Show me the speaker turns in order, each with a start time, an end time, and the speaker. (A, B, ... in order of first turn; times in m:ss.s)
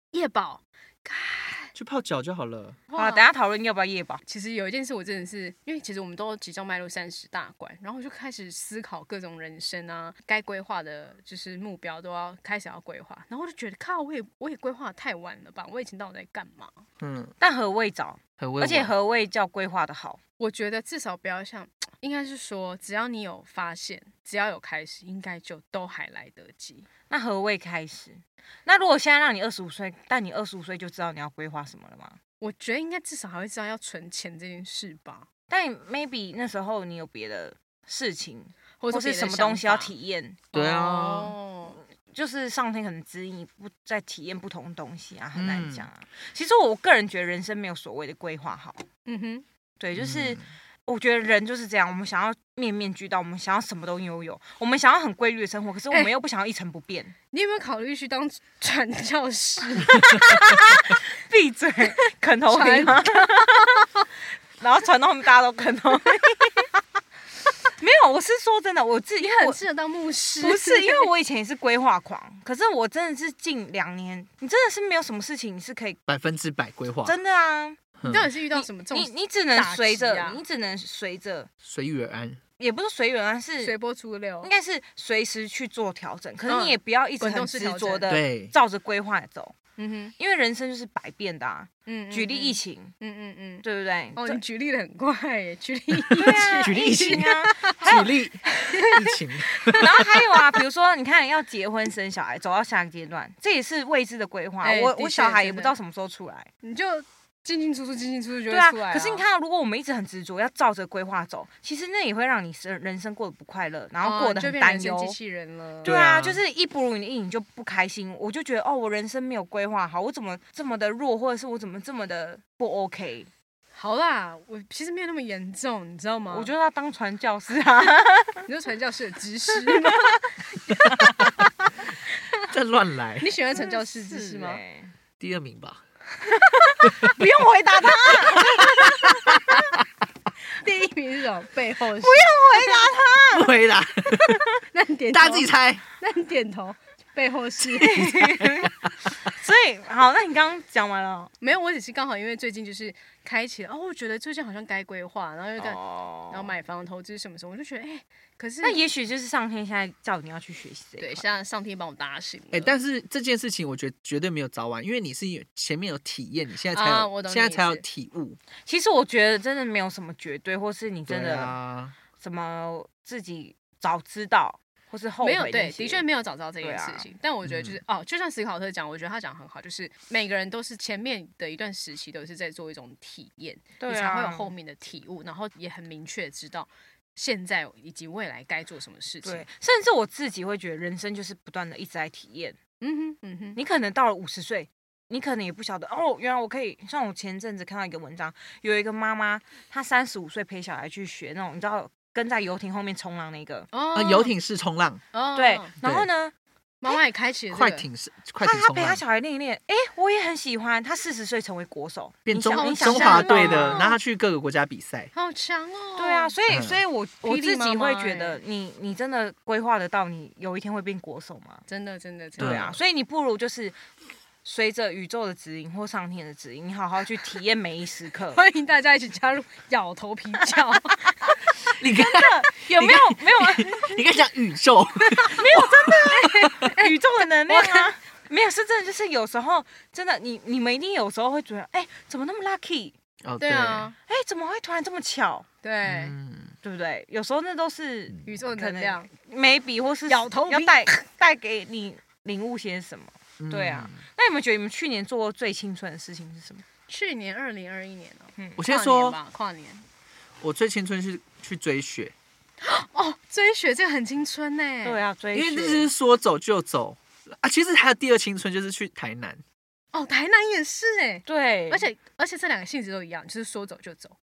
0:00.1-0:01.7 A
0:01.8-0:02.8 B
0:02.9-0:03.2 A
0:03.0-0:04.2 C
0:04.2-0:16.8 A
0:17.0-0:17.3 B
0:17.4-0:20.2 C
0:18.4-0:18.9 B
0:20.4-0:26.9 A
0:27.1-0:32.2 C
0:32.4-0:35.3 A
0:35.5-0:40.5 C
0:38.8-0:39.9 A
0:40.5-0:41.4 B
0:40.5-0:41.8 A
0:42.0-0:48.9 C
0:45.4-0:45.9 B
0:49.0-0:49.4 A
0:49.8-0:57.1 C
0:50.0-0:50.4 B
0:57.3-1:00.7 A
1:00.3-1:03.9 C
1:02.5-1:03.9 A
1:04.6-1:06.8 C
1:07.8-1:09.6 C
1:09.2-1:11.1 A
1:10.4-1:16.0 C
1:16.1-1:17.2 B
1:17.0-1:17.8 C
1:18.0-1:18.3 B
1:18.0-1:20.4 A
1:18.5-1:21.5 C
1:21.6-1:22.4 B
1:22.6-1:23.7 C
1:23.6-1:24.5 A
1:24.4-1:29.5 C
1:26.5-1:28.0 A
1:28.1-1:28.5 B
1:29.8-1:30.1 A
1:30.2-1:32.9 C
1:31.9-1:38.0 A
1:33.6-1:34.4 C
1:36.2-1:38.2 C
1:36.6-1:40.0 B
1:38.7-1:39.7 A
1:39.8-1:46.5 C
1:44.6-1:45.8 A
1:46.6-1:49.2 A
1:48.5-1:55.2 C
1:54.0-1:56.0 A
1:55.8-2:03.3 C
1:55.8-1:56.4 B
2:03.7-2:06.5 A
2:06.3-2:08.4 C
2:08.5-2:10.1 A
2:09.5-2:10.3 C
2:10.9-2:11.3 C
2:12.5-2:13.4 B
2:13.2-2:14.6 A
2:13.5-2:14.9 C
2:15.2-2:15.8 B
2:16.6-2:19.5 C
2:20.6-2:23.0 A
2:22.0-2:23.5 C
2:23.3-2:24.5 B
2:24.7-2:28.5 A
2:25.1-2:25.8 B
2:27.7-2:28.7 C
2:29.2-2:31.3 C
2:31.4-2:38.8 A
2:35.6-2:36.6 C
2:38.6-2:41.2 C
2:41.0-2:42.7 A
2:42.5-2:48.4 B
2:46.7-2:47.8 A
2:48.6-2:51.6 C
2:51.1-2:52.0 B
2:52.2-2:56.1 C
2:55.2-3:09.5 A
2:56.6-2:57.1 C
2:57.4-2:57.8 B
3:03.8-3:04.5 C
3:09.2-3:12.6 C
3:12.8-3:13.6 A
3:13.6-3:23.7 C
3:23.7-3:24.3 A
3:23.9-3:25.0 B
3:25.1-3:25.7 A
3:25.4-3:26.3 C
3:25.8-3:26.1 B
3:26.8-3:27.9 A
3:27.5-3:29.0 B
3:28.4-3:34.0 C
3:32.3-3:35.1 B
3:32.6-3:34.0 A
3:35.1-3:36.4 A
3:36.0-3:41.6 C
3:36.5-3:36.8 B
3:37.2-3:38.4 A
3:41.7-3:42.7 A
3:42.4-3:43.8 C
3:42.4-3:42.8 B
3:44.4-3:48.4 C
3:48.3-3:51.1 A
3:51.7-3:54.0 C
3:51.8-3:55.9 B
3:55.1-3:55.3 A
3:55.3-4:03.0 C
3:56.1-3:57.9 A
4:03.2-4:03.9 B
4:03.4-4:04.0 A
4:04.1-4:05.5 C
4:05.6-4:06.2 A
4:05.8-4:06.6 B
4:06.6-4:16.6 C
4:08.2-4:09.1 A
4:10.1-4:11.0 A
4:13.4-4:14.0 B
4:16.9-4:19.8 A
4:18.6-4:19.2 B
4:20.4-4:22.1 B
4:22.6-4:25.0 A
4:24.8-4:25.9 C
4:25.3-4:29.4 B
4:29.9-4:34.2 A
4:31.3-4:31.9 C